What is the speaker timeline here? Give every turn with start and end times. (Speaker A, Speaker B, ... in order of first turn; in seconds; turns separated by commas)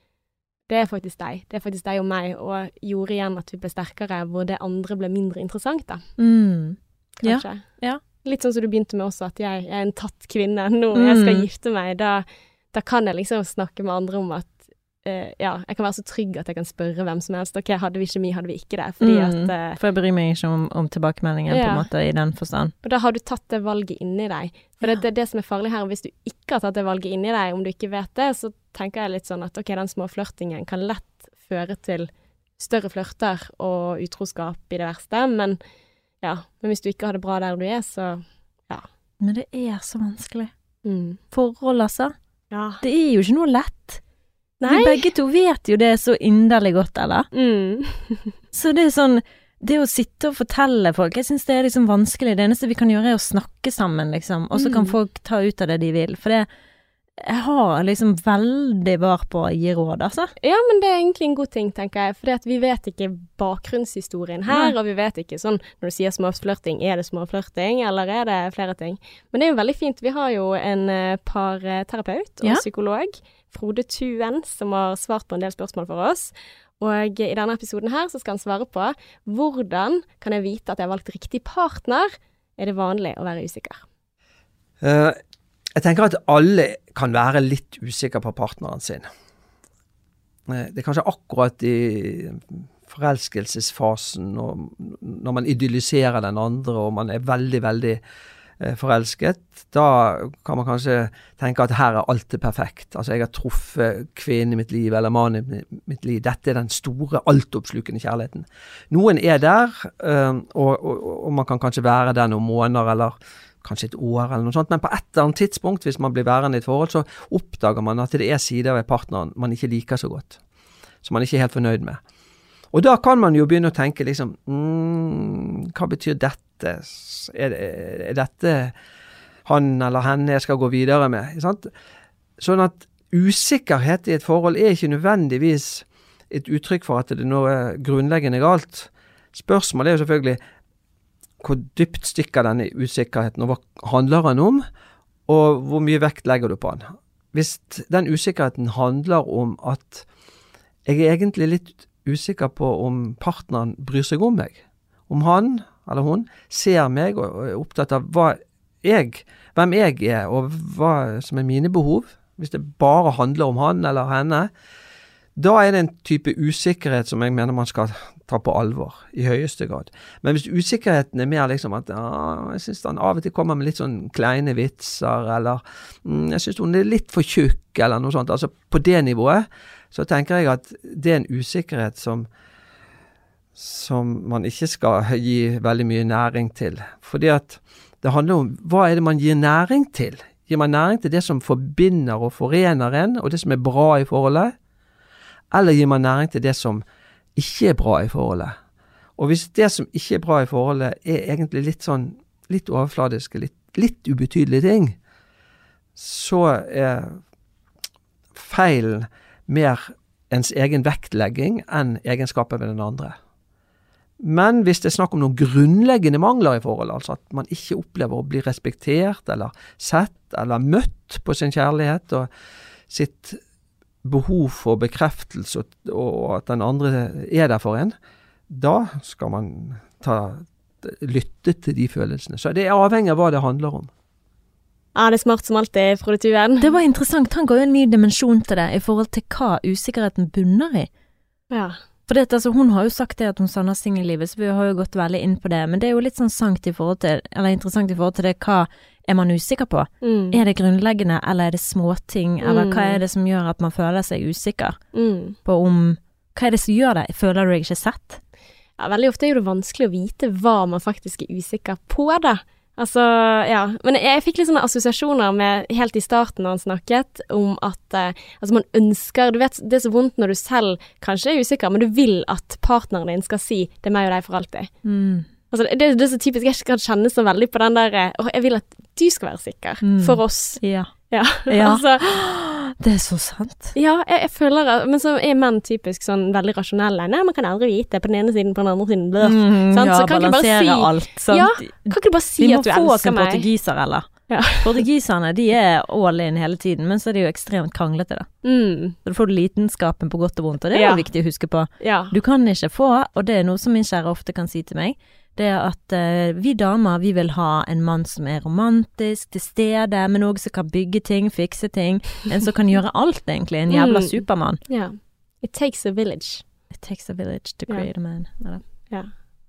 Speaker A: 0.7-6.0, Speaker B: 6.2-8.0, Speaker A: 7.2-7.6, Speaker A: 8.2-19.8, Speaker B: 10.9-11.4, Speaker B: 19.0-22.7, Speaker A: 21.5-21.9, Speaker A: 22.8-35.6, Speaker A: 36.2-38.9, Speaker B: 39.2-40.5, Speaker A: 40.8-41.2, Speaker B: 41.3-42.1, Speaker A: 42.5-42.8, Speaker B: 42.8-44.0, Speaker A: 44.6-45.0, Speaker B: 44.6-47.3, Speaker A: 47.3-48.4, Speaker B: 48.5-56.5, Speaker A: 54.5-55.0, Speaker B: 57.2-60.3, Speaker A: 60.4-83.8, Speaker B: 64.5-64.8, Speaker C: 84.8-85.2, Speaker C: 85.8-89.1, Speaker C: 90.5-98.0, Speaker C: 98.6-120.4, Speaker C: 121.0-122.0, Speaker C: 122.7-128.7, Speaker C: 129.4-131.7, Speaker C: 132.4-140.4, Speaker C: 141.4-144.6, Speaker C: 145.3-150.1, Speaker C: 150.9-164.5, Speaker C: 165.4-182.3, Speaker C: 183.6-194.5, Speaker C: 195.5-196.8, Speaker C: 197.4-198.5, Speaker C: 199.2-205.0, Speaker C: 205.9-207.2, Speaker C: 208.3-213.1, Speaker C: 214.2-222.3, Speaker C: 222.9-223.4, Speaker C: 224.0-227.9, Speaker C: 228.5-233.9, Speaker A: 234.9-236.7, Speaker B: 236.6-240.9, Speaker A: 241.5-241.8, Speaker B: 242.1-254.8, Speaker A: 250.0-250.4, Speaker A: 252.4-253.0, Speaker A: 254.9-255.4, Speaker B: 255.4-258.2, Speaker A: 258.8-274.7, Speaker B: 274.8-275.3, Speaker A: 275.5-282.0, Speaker B: 279.8-280.9, Speaker B: 281.5-283.7, Speaker A: 283.8-293.5, Speaker B: 289.2-294.1, Speaker A: 294.3-294.8, Speaker B: 294.6-298.3, Speaker A: 298.4-299.0, Speaker B: 299.1-314.6, Speaker A: 300.7-301.1, Speaker A: 301.8-302.1, Speaker A: 313.7-316.4, Speaker B: 316.7-318.6